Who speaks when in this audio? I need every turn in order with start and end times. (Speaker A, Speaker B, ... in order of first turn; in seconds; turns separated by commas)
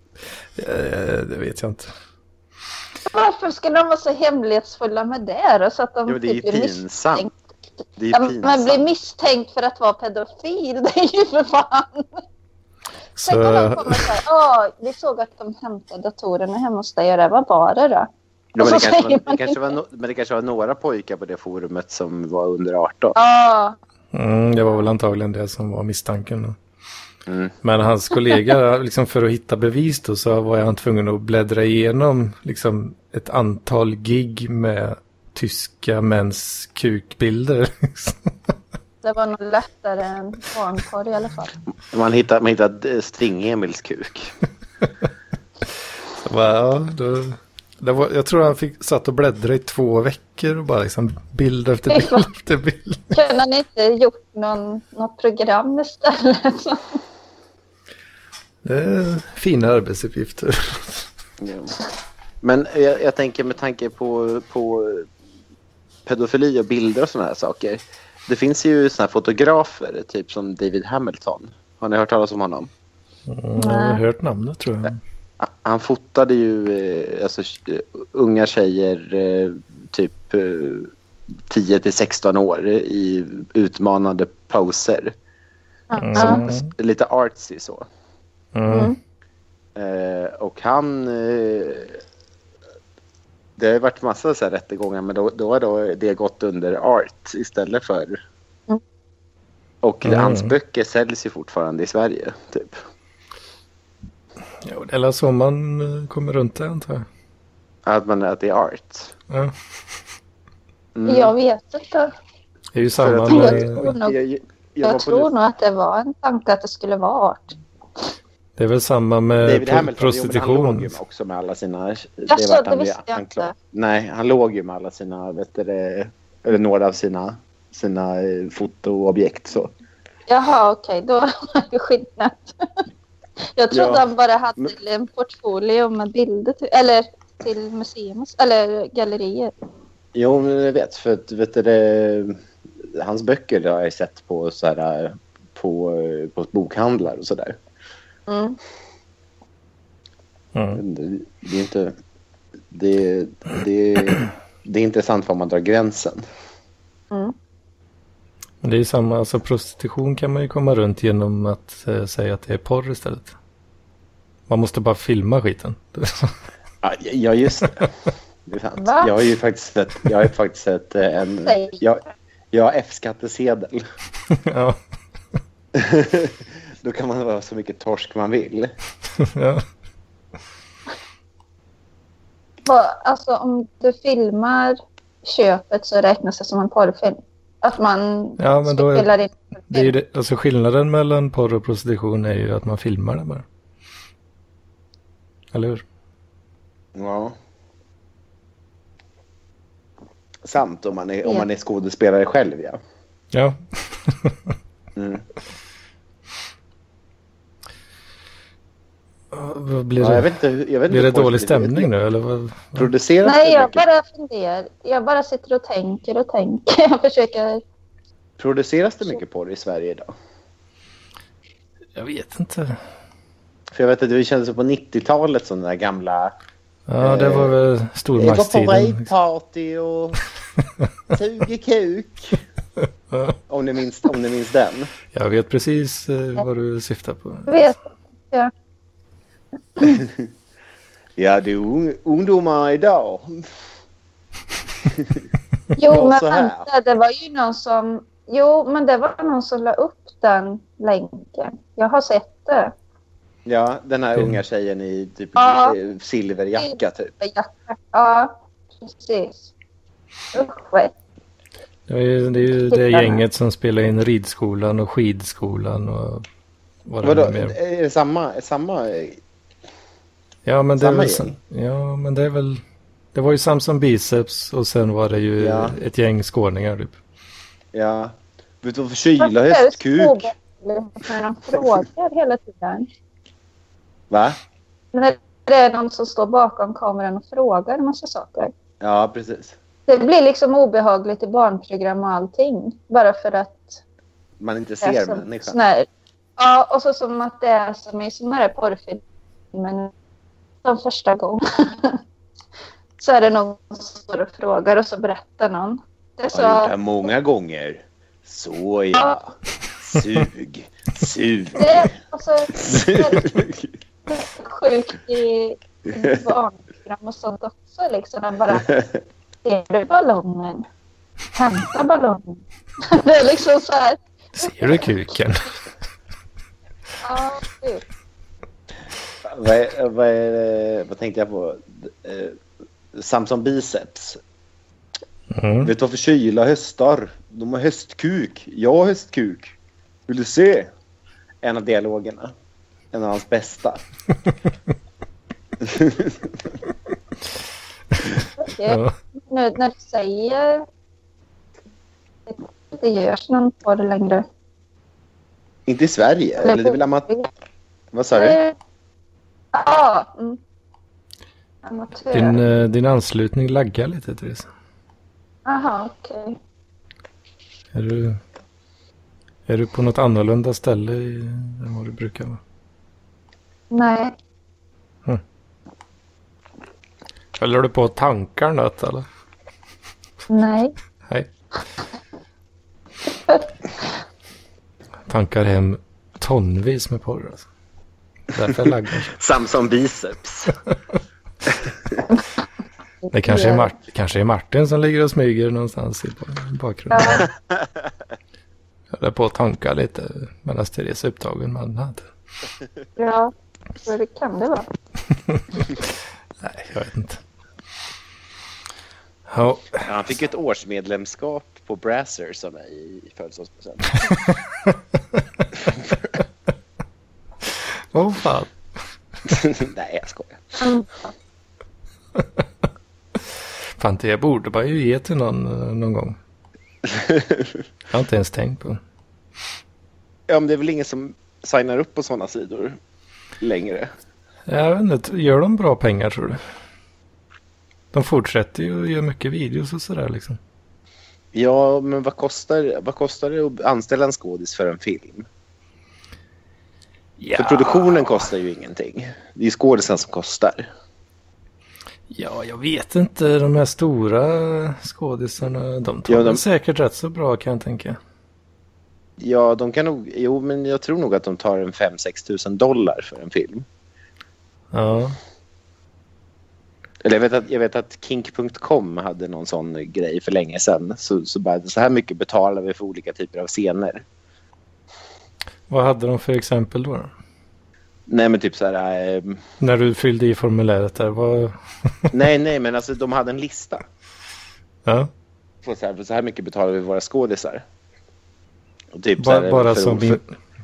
Speaker A: 0.6-1.9, Speaker B: 3.1-7.3, Speaker C: 6.1-7.3, Speaker C: 8.0-8.9, Speaker B: 8.1-12.2, Speaker A: 13.2-14.1, Speaker B: 13.2-19.7, Speaker C: 18.5-23.1, Speaker B: 23.1-23.8, Speaker A: 24.1-26.6, Speaker C: 27.3-27.6, Speaker A: 27.6-38.3, Speaker B: 39.0-41.5, Speaker C: 41.9-44.3, Speaker A: 46.2-53.2, Speaker B: 51.9-52.3, Speaker B: 53.1-57.0, Speaker A: 58.6-61.1, Speaker C: 61.4-61.7, Speaker C: 62.4-65.1, Speaker C: 66.0-72.7, Speaker A: 73.3-75.0, Speaker B: 73.6-74.0, Speaker C: 75.4-80.9, Speaker C: 81.5-85.1, Speaker B: 85.9-86.4, Speaker A: 86.0-86.7, Speaker C: 86.2-87.8, Speaker A: 88.5-88.9, Speaker B: 88.7-89.0, Speaker C: 89.8-92.0, Speaker C: 93.6-98.2, Speaker C: 99.8-102.8, Speaker A: 100.0-100.5, Speaker A: 104.6-107.0, Speaker C: 107.9-109.1, Speaker C: 111.0-111.3, Speaker B: 111.0-112.1, Speaker A: 112.7-113.9, Speaker C: 113.0-115.3, Speaker B: 113.3-114.2, Speaker B: 114.8-117.6, Speaker A: 118.6-121.0, Speaker C: 119.4-129.7, Speaker B: 122.3-123.5, Speaker B: 130.3-132.6, Speaker B: 133.6-139.5, Speaker C: 133.7-134.1, Speaker C: 140.1-142.4, Speaker C: 142.9-147.6, Speaker B: 148.3-148.6, Speaker A: 150.6-150.8, Speaker C: 150.8-151.9, Speaker C: 152.7-156.2, Speaker A: 158.6-163.3, Speaker A: 164.5-166.3, Speaker C: 166.8-167.9, Speaker C: 168.4-173.8, Speaker B: 168.8-169.1, Speaker B: 171.4-171.8, Speaker A: 174.3-174.8, Speaker C: 175.7-178.7, Speaker A: 179.2-179.6, Speaker B: 182.7-189.9, Speaker A: 188.4-189.1, Speaker A: 189.7-193.4, Speaker A: 195.5-195.8, Speaker C: 196.9-197.4, Speaker C: 200.4-202.8, Speaker A: 203.3-204.5, Speaker C: 204.9-205.2, Speaker A: 209.3-210.3, Speaker C: 210.0-211.9, Speaker A: 210.9-212.9, Speaker C: 212.8-213.8, Speaker B: 213.2-217.6, Speaker C: 218.4-220.1, Speaker A: 221.9-222.8, Speaker C: 223.7-226.3, Speaker A: 226.9-229.1, Speaker C: 227.0-227.6, Speaker C: 228.2-230.2, Speaker C: 231.1-232.4, Speaker A: 233.1-233.4, Speaker C: 233.5-234.9, Speaker A: 235.1-237.7, Speaker B: 237.5-237.8, Speaker C: 241.2-243.4, Speaker C: 244.9-245.2, Speaker B: 245.8-252.7, Speaker C: 245.8-246.7, Speaker C: 253.4-257.1, Speaker B: 255.4-255.8, Speaker B: 256.6-259.5, Speaker B: 260.3-260.9, Speaker A: 261.9-266.2, Speaker B: 262.7-263.2, Speaker A: 266.9-267.6, Speaker C: 267.0-269.2, Speaker A: 270.4-272.6, Speaker C: 270.8-271.3, Speaker A: 273.1-277.0, Speaker C: 275.4-275.8, Speaker C: 277.7-280.3, Speaker B: 279.2-282.9, Speaker C: 284.1-284.4, Speaker B: 284.9-288.5, Speaker C: 288.8-289.6, Speaker B: 289.9-293.8, Speaker C: 294.4-295.6, Speaker B: 294.8-295.9, Speaker B: 296.4-299.0, Speaker B: 299.5-299.9, Speaker B: 300.6-302.0, Speaker B: 303.0-306.7, Speaker C: 306.3-311.9, Speaker B: 311.6-313.4, Speaker C: 312.6-313.7, Speaker B: 314.1-318.7, Speaker B: 319.4-320.7, Speaker B: 321.3-324.9, Speaker A: 324.4-325.5, Speaker B: 327.0-327.8, Speaker C: 329.2-332.4, Speaker C: 332.9-334.2, Speaker A: 335.3-335.7, Speaker C: 335.6-339.5, Speaker C: 340.1-340.7, Speaker C: 341.4-342.3, Speaker C: 342.9-343.8, Speaker C: 345.6-346.3, Speaker B: 348.4-350.7, Speaker A: 348.6-348.9, Speaker B: 352.3-354.2, Speaker C: 355.7-357.1, Speaker B: 356.4-357.3, Speaker C: 357.9-358.4, Speaker B: 358.1-358.6, Speaker B: 359.5-360.4, Speaker B: 361.6-362.4, Speaker A: 362.1-364.5, Speaker B: 365.4-366.4, Speaker A: 367.7-368.2, Speaker A: 369.5-372.4, Speaker B: 373.7-374.2, Speaker A: 377.4-379.1, Speaker B: 380.3-380.7, Speaker A: 385.1-387.4, Speaker A: 388.3-389.1, Speaker C: 389.1-390.6, Speaker C: 391.5-392.0, Speaker A: 393.1-397.3, Speaker B: 393.2-393.7, Speaker B: 396.9-397.3, Speaker A: 398.9-402.1, Speaker B: 403.0-403.3, Speaker B: 403.8-404.7, Speaker A: 405.3-405.9, Speaker A: 406.4-407.2, Speaker A: 409.3-409.9, Speaker C: 409.8-414.1, Speaker A: 414.1-414.4, Speaker A: 417.4-418.5, Speaker C: 419.3-420.4, Speaker B: 420.6-421.1, Speaker A: 423.8-426.2, Speaker A: 427.9-428.8, Speaker C: 430.3-432.8, Speaker C: 433.4-433.9, Speaker A: 434.5-436.4, Speaker A: 437.9-440.4, Speaker C: 441.3-445.3, Speaker A: 447.2-448.3, Speaker C: 447.4-450.7, Speaker A: 452.1-458.0, Speaker C: 456.1-456.4, Speaker C: 459.2-463.7, Speaker A: 464.7-465.2, Speaker C: 467.0-474.1, Speaker A: 475.7-477.1, Speaker C: 478.1-479.4, Speaker A: 479.6-482.1, Speaker C: 482.1-483.8, Speaker C: 485.6-487.6, Speaker C: 488.9-490.2, Speaker A: 489.2-490.3